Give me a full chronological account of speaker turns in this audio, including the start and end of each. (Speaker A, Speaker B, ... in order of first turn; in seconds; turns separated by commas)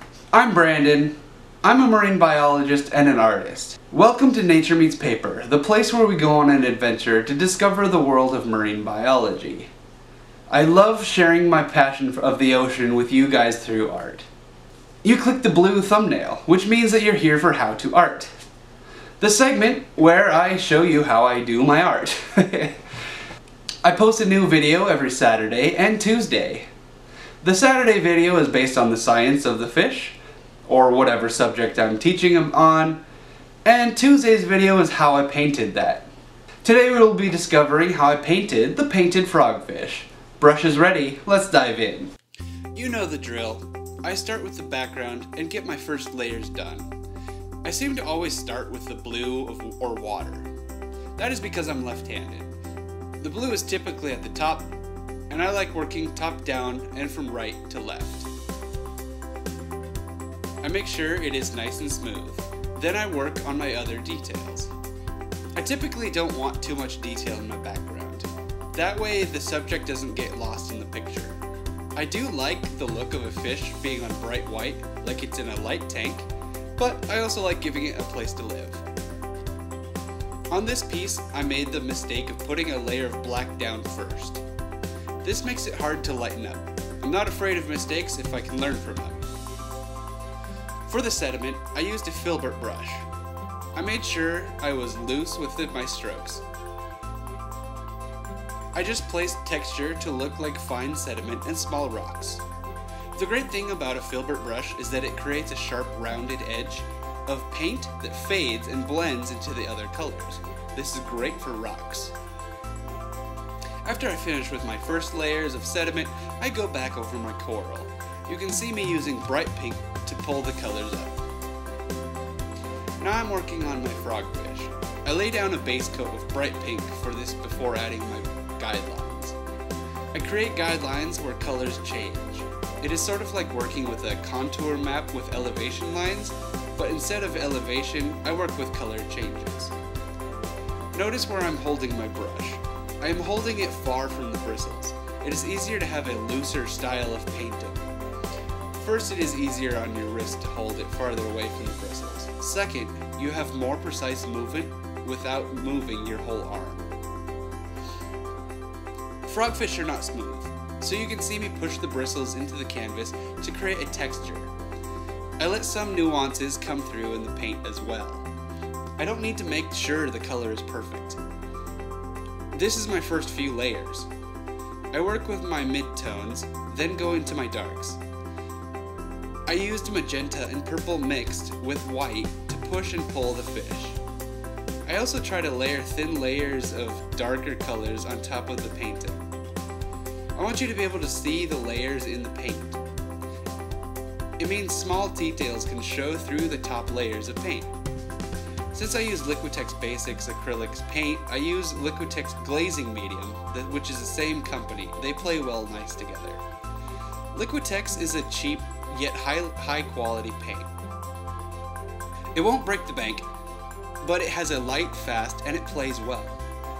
Speaker A: 0.3-9.7, Speaker A: 10.5-14.2, Speaker A: 15.0-18.3, Speaker A: 19.2-22.8, Speaker A: 23.8-26.7, Speaker A: 27.4-33.0, Speaker A: 33.6-36.1, Speaker A: 36.6-42.1, Speaker A: 42.7-46.9, Speaker A: 47.6-50.5, Speaker A: 51.2-52.5, Speaker A: 53.2-54.7, Speaker A: 55.3-58.3, Speaker A: 60.6-64.7, Speaker A: 65.5-71.4, Speaker A: 72.0-78.8, Speaker A: 80.5-84.4, Speaker A: 85.2-89.3, Speaker A: 90.8-93.1, Speaker A: 93.7-96.4, Speaker A: 98.7-102.4, Speaker A: 103.1-112.1, Speaker A: 113.8-121.2, Speaker A: 123.0-129.4, Speaker A: 130.1-139.7, Speaker A: 140.9-147.9, Speaker A: 148.8-156.9, Speaker A: 159.2-164.5, Speaker A: 165.4-168.3, Speaker A: 169.0-171.2, Speaker A: 172.5-174.1, Speaker A: 174.9-178.0, Speaker A: 179.5-184.0, Speaker A: 184.8-189.2, Speaker A: 190.3-192.8, Speaker A: 194.4-197.7, Speaker A: 198.7-206.4, Speaker A: 207.3-210.7, Speaker A: 212.3-213.3, Speaker A: 214.0-216.4